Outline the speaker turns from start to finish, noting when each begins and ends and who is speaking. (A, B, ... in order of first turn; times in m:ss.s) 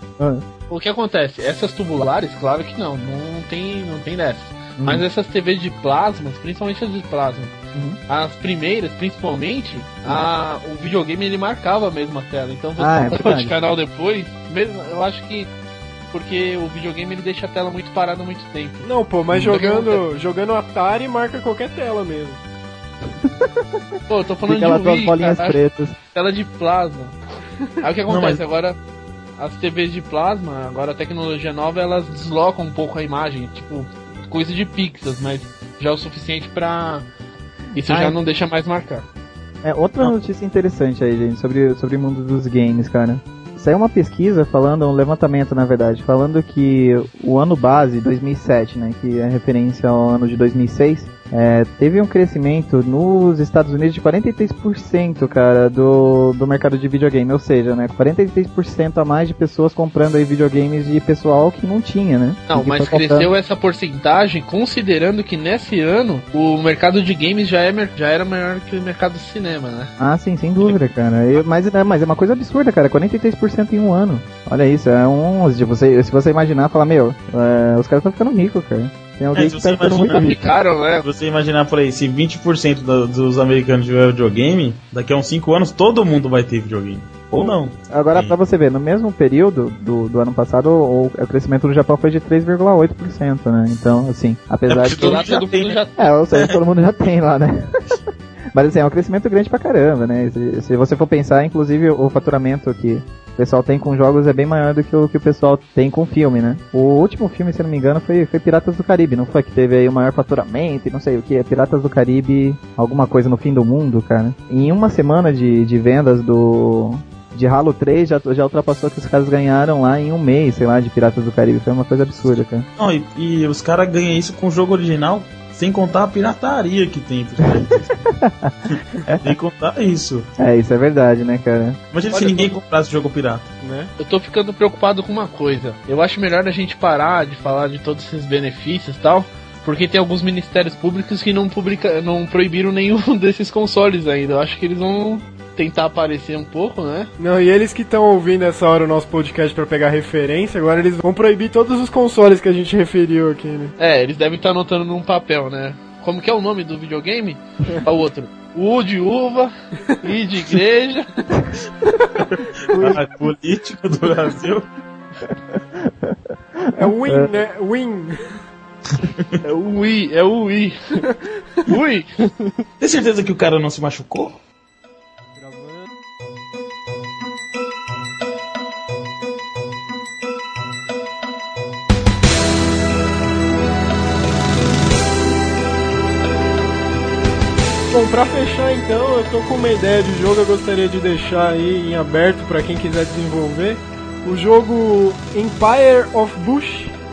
0:00.2-0:00.4 A
0:00.7-0:07.5 B
0:04.8-0:05.0 A
0:07.7-0:08.0 A
0:08.1-0:15.5 B
0:12.8-0:13.5 A
0:16.1-0:20.1 B
0:18.8-0:22.4 C
0:23.2-0:23.8 A
0:24.1-0:25.6 B
0:24.4-0:25.9 A
0:26.1-0:27.1 B
0:27.8-0:28.8 B
0:28.1-0:28.4 D
0:29.4-0:37.0 B
0:37.7-0:39.0 B
0:37.8-0:38.2 A
0:39.6-1:03.3 A
1:02.5-1:09.9 B
1:10.0-1:20.4 A
1:19.3-1:20.4 D
1:20.0-1:21.1 B
1:21.0-1:28.3 D
1:27.4-1:35.2 A
1:34.7-1:35.8 D
1:34.8-1:36.0 B
1:36.0-1:37.9 A
1:38.5-2:02.7 A
2:02.2-2:08.0 D
2:08.1-2:08.5 A
2:08.7-2:10.3 D
2:09.0-2:09.4 A
2:10.4-2:11.8 A
2:11.9-2:13.5 D
2:12.1-2:12.5 B
2:13.6-2:13.9 C
2:14.0-2:27.1 B
2:27.2-2:33.7 C
2:33.8-2:41.1 B
2:41.9-2:43.0 C
2:42.3-2:44.7 D
2:45.8-2:47.4 A
2:46.8-2:48.4 C
2:48.9-2:49.4 D
2:49.4-2:51.0 B
2:51.1-2:51.4 C
2:51.6-2:52.6 B
2:52.8-2:54.4 D
2:55.4-2:55.9 C
3:07.9-3:17.0 C